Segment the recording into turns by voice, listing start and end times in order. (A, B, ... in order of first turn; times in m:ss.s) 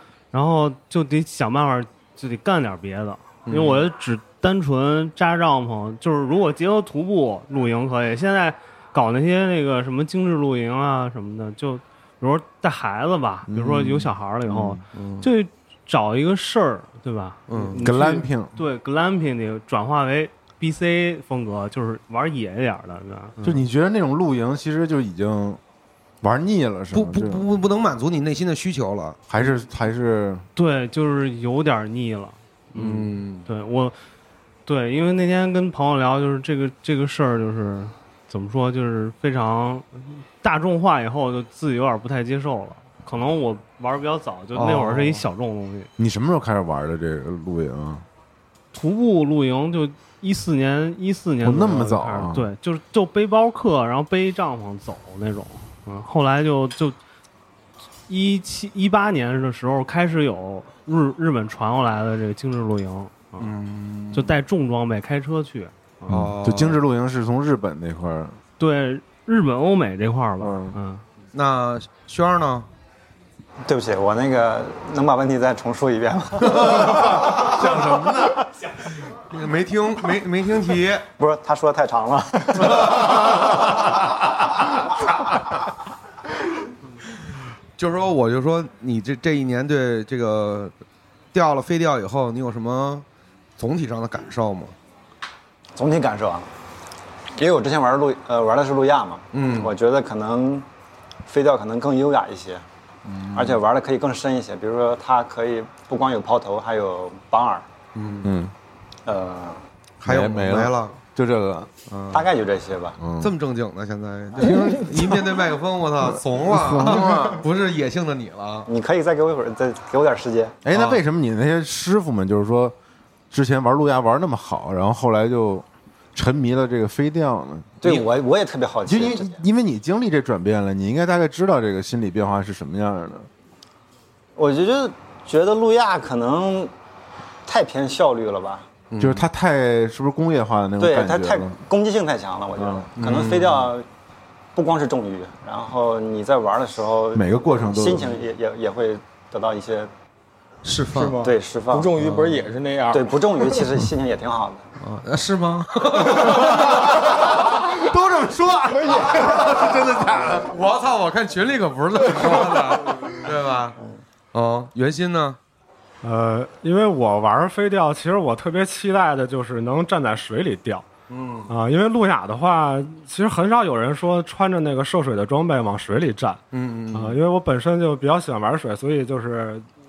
0:00.3-0:23.6 A
0:03.5-0:03.9 B
0:13.5-0:14.8 C
0:14.9-0:15.3 B
0:17.5-0:17.8 B
0:17.8-0:18.5 C
0:23.4-0:25.6 C
0:26.2-0:27.4 C
0:26.9-0:29.2 B
0:29.3-0:30.4 C
0:30.6-0:34.0 A
0:32.8-0:33.5 B
0:34.6-0:45.9 A
0:44.5-0:45.2 B
0:46.0-0:48.0 C
0:48.7-0:57.0 A
0:51.4-0:52.5 C
0:58.1-1:03.5 A
1:03.4-1:04.4 B
1:04.1-1:06.1 A
1:06.1-1:06.8 B
1:06.1-1:08.4 C
1:08.6-1:11.0 A
1:10.4-1:10.8 C
1:11.3-1:12.7 B
1:13.6-1:16.8 D
1:16.5-1:18.4 B
1:16.8-1:18.4 C
1:19.3-1:21.0 B
1:21.2-1:22.8 D
1:22.6-1:23.3 B
1:27.8-1:30.7 B
1:31.3-1:33.0 B
1:33.6-1:34.8 B
1:35.8-1:36.5 D
1:37.4-1:40.7 D
1:39.3-1:39.7 B
1:41.2-1:42.6 D
1:43.0-1:43.6 B
1:43.3-1:47.6 D
1:48.0-1:48.3 B
1:48.2-1:48.5 C
1:49.0-1:49.6 D
1:50.0-1:51.7 C
1:50.0-1:51.0 B
1:51.9-1:52.3 B
1:52.1-1:53.0 D
1:53.0-1:53.3 C
1:53.2-1:58.7 B
1:54.4-1:55.1 E
1:56.0-1:57.4 C
1:58.7-2:00.5 D
2:00.6-2:02.8 C
2:03.3-2:07.8 C
2:07.8-2:09.4 D
2:08.9-2:13.3 C
2:14.4-2:16.7 D
2:17.5-2:18.7 D
2:18.9-2:19.2 B
2:19.0-2:21.6 C
2:20.8-2:23.9 D
2:22.6-2:22.9 C
2:23.0-2:23.7 B
2:24.5-2:29.9 D
2:27.1-2:28.2 C
2:30.6-2:31.2 B
2:30.9-2:33.5 E
2:31.2-2:32.0 D
2:32.0-2:32.3 C
2:32.9-2:34.6 D
2:34.8-2:36.8 B
2:36.1-2:40.5 C
2:38.7-2:39.3 E
2:40.4-2:43.8 B
2:42.2-2:42.7 E
2:44.3-2:45.4 B
2:46.0-2:50.9 F
2:51.1-2:51.5 B
2:51.5-2:56.4 F
2:56.5-2:57.2 B
2:56.9-2:59.7 F